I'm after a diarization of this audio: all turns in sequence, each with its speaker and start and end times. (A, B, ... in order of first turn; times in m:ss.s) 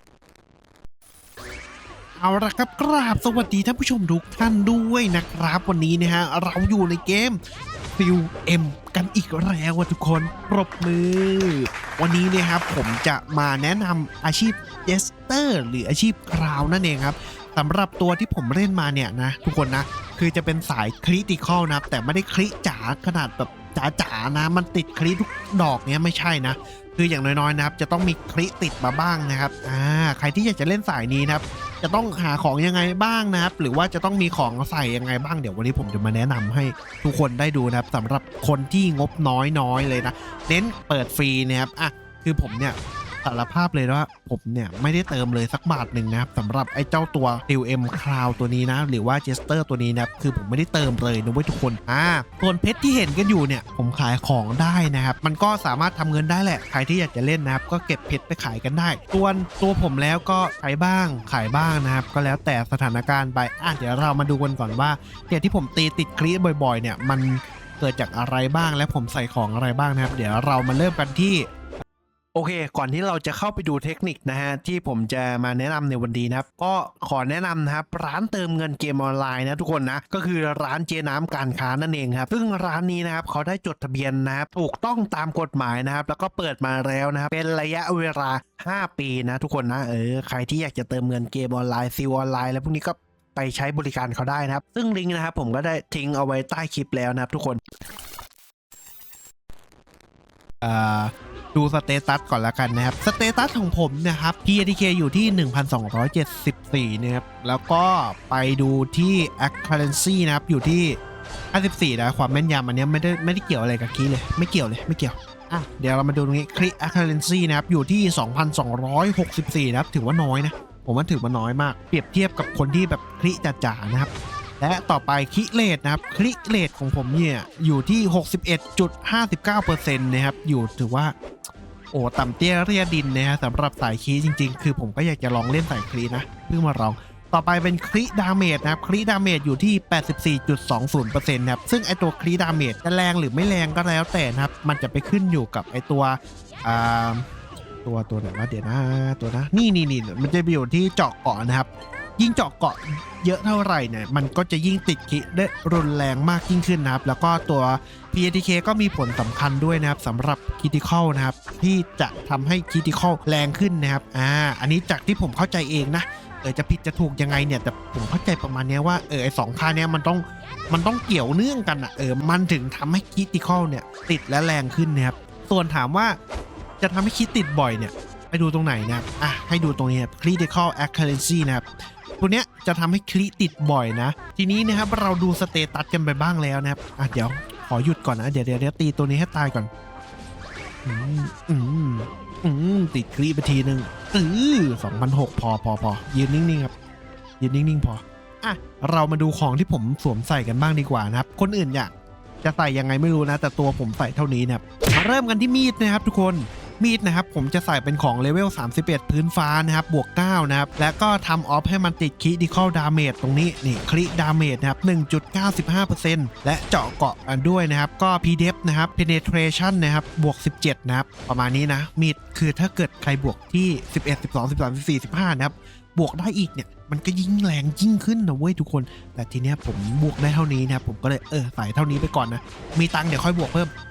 0:02.2-0:07.4 A
0:08.0-1:11.4 A
1:12.3-1:37.6 A
1:40.6-1:51.0 A
1:51.5-2:11.1 A
2:11.9-2:27.2 A
2:27.8-2:56.2 A
2:56.8-3:01.7 A
3:02.2-3:09.7 A
3:10.8-3:16.7 A
3:17.4-3:21.9 A
3:22.4-3:53.7 A